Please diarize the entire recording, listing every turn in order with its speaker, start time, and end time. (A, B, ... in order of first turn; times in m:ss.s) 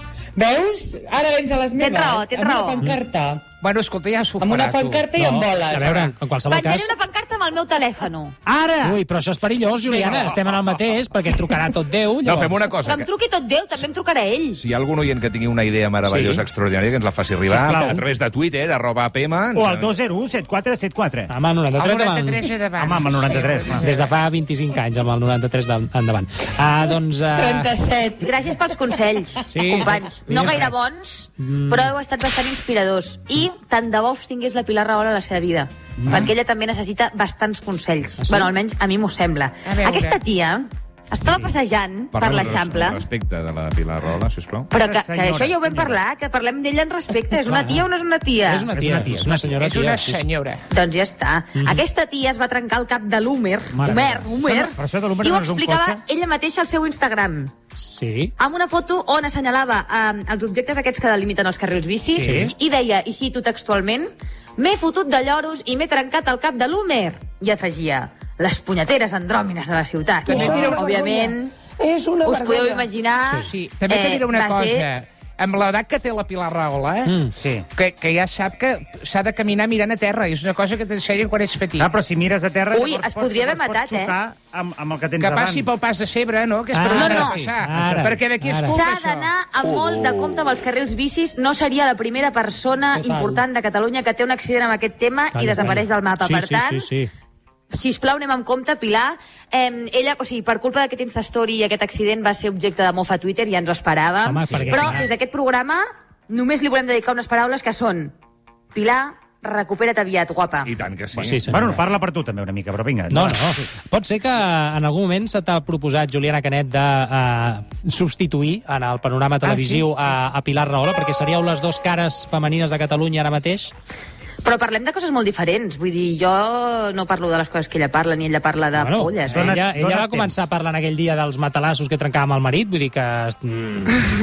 0:00.4-0:03.4 A
0:01.8-0:02.9 B
0:03.6-0:05.1 C
0:04.4-0:06.2 A
0:05.1-0:06.9 D
0:06.5-0:08.4 B
0:08.4-0:09.0 E
0:08.8-0:12.6 D
0:12.2-0:13.1 F
0:12.8-0:14.6 B
0:14.6-0:19.9 F
0:16.1-0:16.4 D
0:17.4-0:18.0 E
0:19.6-0:21.3 E
0:21.3-0:22.5 D
0:21.8-0:24.1 C
0:22.8-0:23.9 E
0:23.8-0:27.8 D
0:27.4-0:28.4 A
0:28.2-0:43.0 B
0:29.5-0:30.7 D
0:31.3-0:31.9 D
0:36.0-0:36.3 E
0:38.2-0:38.5 D
0:39.6-0:40.2 C
0:42.1-0:44.7 F
0:44.7-0:48.7 B
0:44.7-0:46.0 E
0:47.5-0:47.9 D
0:48.5-0:50.2 D
0:48.7-0:49.6 E
0:49.6-0:50.6 C
0:50.7-0:57.5 B
0:51.6-0:51.8 D
0:53.7-0:56.0 E
0:57.8-0:58.3 D
0:58.4-1:11.5 B
1:02.1-1:02.5 E
1:02.2-1:02.5 D
1:10.3-1:12.9 G
1:10.3-1:10.8 E
1:12.2-1:14.9 B
1:13.2-1:13.5 D
1:13.4-1:17.1 C
1:17.1-1:17.3 D
1:17.3-1:17.7 E
1:17.8-1:21.9 C
1:21.8-1:25.7 E
1:22.7-1:24.1 B
1:25.2-1:29.3 C
1:26.7-1:28.8 D
1:26.9-1:27.4 B
1:27.2-1:28.2 E
1:28.6-1:36.9 B
1:32.9-1:33.4 A
1:35.3-1:37.1 D
1:37.7-1:48.1 B
1:44.2-1:45.0 D
1:44.7-1:45.0 E
1:48.7-1:50.7 B
1:50.6-1:51.4 F
1:51.2-1:51.8 D
1:51.4-1:53.7 E
1:53.1-2:03.7 D
1:59.4-2:00.2 E
2:04.4-2:09.5 B
2:08.8-2:14.0 D
2:09.3-2:10.4 E